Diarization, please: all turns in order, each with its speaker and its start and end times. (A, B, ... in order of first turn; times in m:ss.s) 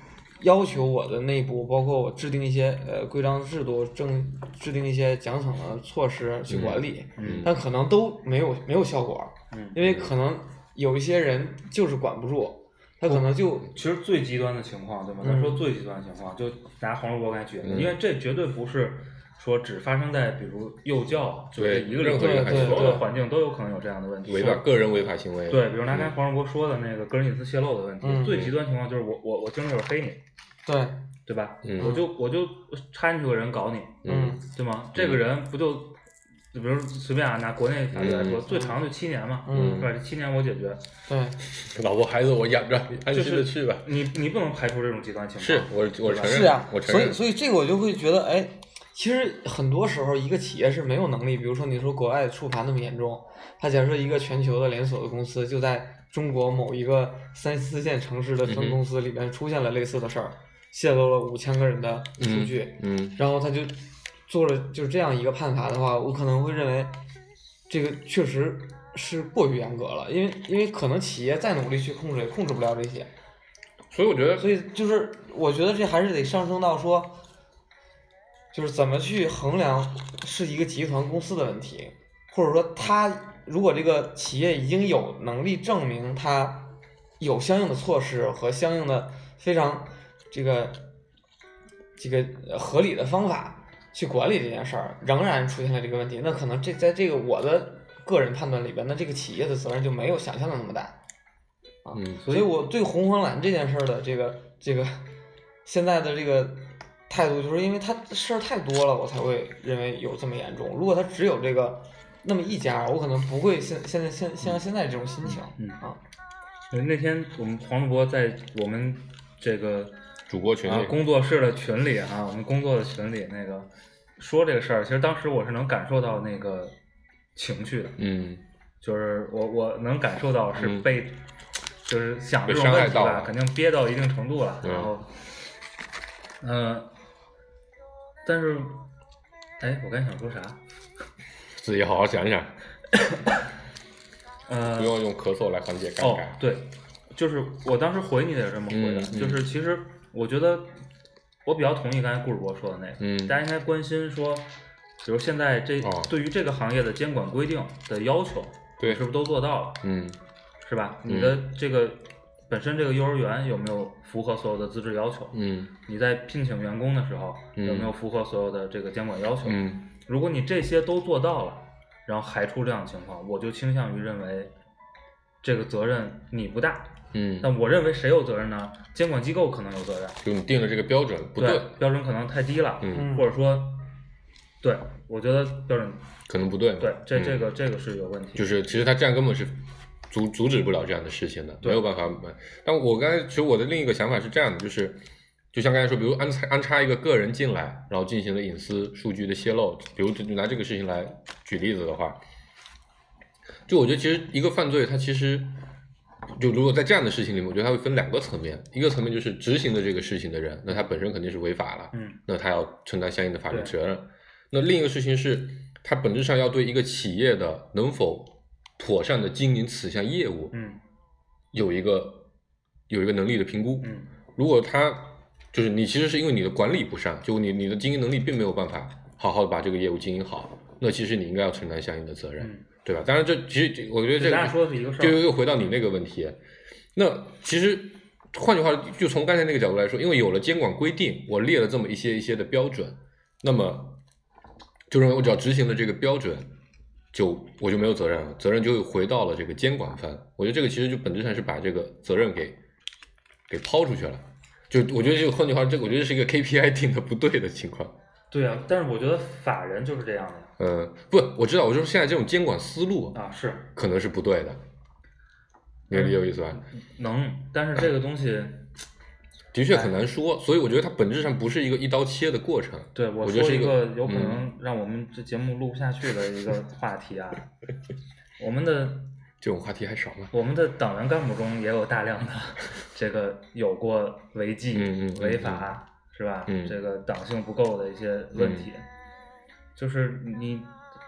0:00.4-0:13.7 A
0:06.5-0:07.5 B
0:07.2-0:07.5 C
0:09.5-0:09.8 C
0:09.8-0:10.1 B
0:13.1-0:24.6 C
0:15.2-0:15.6 A
0:17.6-0:18.0 B
0:21.5-0:23.1 B
0:22.1-0:23.1 A
0:24.2-0:26.2 B
0:25.5-0:30.2 C
0:28.0-0:28.4 A
0:28.2-0:28.6 B
0:30.6-0:31.0 A
0:31.3-0:36.0 C
0:31.6-0:32.0 B
0:31.8-0:32.0 A
0:34.0-0:34.4 B
0:34.0-0:34.4 A
0:34.9-0:35.2 B
0:36.5-0:40.9 C
0:37.9-0:38.5 B
0:38.5-0:38.8 A
0:39.4-0:39.9 A
0:39.5-0:39.9 B
0:41.1-0:41.4 A
0:41.6-0:43.9 B
0:43.1-0:46.6 C
0:45.4-0:47.2 B
0:46.2-1:07.0 A
0:58.4-0:58.8 B
1:02.2-1:03.2 B
1:07.7-1:13.1 A
1:13.9-1:14.5 B
1:14.4-1:17.2 A
1:18.5-1:30.9 A
1:32.0-1:41.0 A
1:41.8-1:45.1 A
1:41.9-1:42.2 B
1:42.2-1:42.6 C
1:45.6-1:56.0 A
1:55.2-1:55.8 C
1:56.7-2:00.0 C
2:00.3-2:01.0 B
2:00.6-2:06.7 C
2:07.4-2:08.0 C
2:08.0-2:08.4 B
2:08.8-2:11.2 C
2:10.5-2:11.0 B
2:11.8-2:15.1 C
2:12.4-2:13.4 B
2:14.6-2:14.9 B
2:16.4-2:16.9 C
2:18.2-2:18.8 C
2:19.6-2:20.6 C
2:21.6-2:22.6 B
2:24.5-2:25.0 C
2:24.7-2:26.4 B
2:26.0-2:30.8 C
2:28.7-2:29.5 B
2:31.4-2:34.5 C
2:33.0-2:33.4 B
2:35.0-2:39.8 C
2:35.8-2:36.1 B
2:38.8-2:39.1 B
2:39.8-2:40.2 B
2:40.6-2:54.5 C
2:41.0-2:41.5 B
2:45.3-2:45.7 B
2:47.6-2:47.9 B
2:49.4-2:49.9 B
2:55.4-3:00.2 C
2:57.1-2:57.5 B
3:00.2-3:01.8 B
3:01.4-3:03.9 C
3:02.8-3:03.1 B
3:02.9-3:03.3 A
3:04.6-3:06.1 C
3:06.3-3:07.4 B
3:06.8-3:08.5 C
3:08.3-3:22.2 B
3:23.7-3:25.6 B
3:26.4-3:40.6 B
3:31.9-3:32.2 C
3:33.5-3:33.7 C
3:40.5-3:40.8 C
3:41.5-3:42.3 B
3:42.9-3:56.4 B
3:43.8-3:44.1 C
3:52.4-3:52.6 C
3:54.1-3:55.3 C
3:56.9-4:04.0 B
4:04.9-4:06.5 B
4:07.1-4:12.6 B
4:13.5-4:18.0 B
4:18.3-4:20.5 C
4:20.6-4:23.2 B
4:23.1-4:23.7 C
4:23.7-4:24.6 B
4:25.9-4:26.6 B
4:25.9-4:28.7 C
4:29.5-4:34.4 B
4:29.7-4:30.0 C
4:32.9-4:37.5 C
4:38.4-4:39.1 C
4:39.4-4:40.3 B
4:40.3-4:48.8 C
4:44.7-4:45.7 B
4:46.5-4:46.8 B
4:48.3-4:48.7 B
4:49.8-4:50.7 C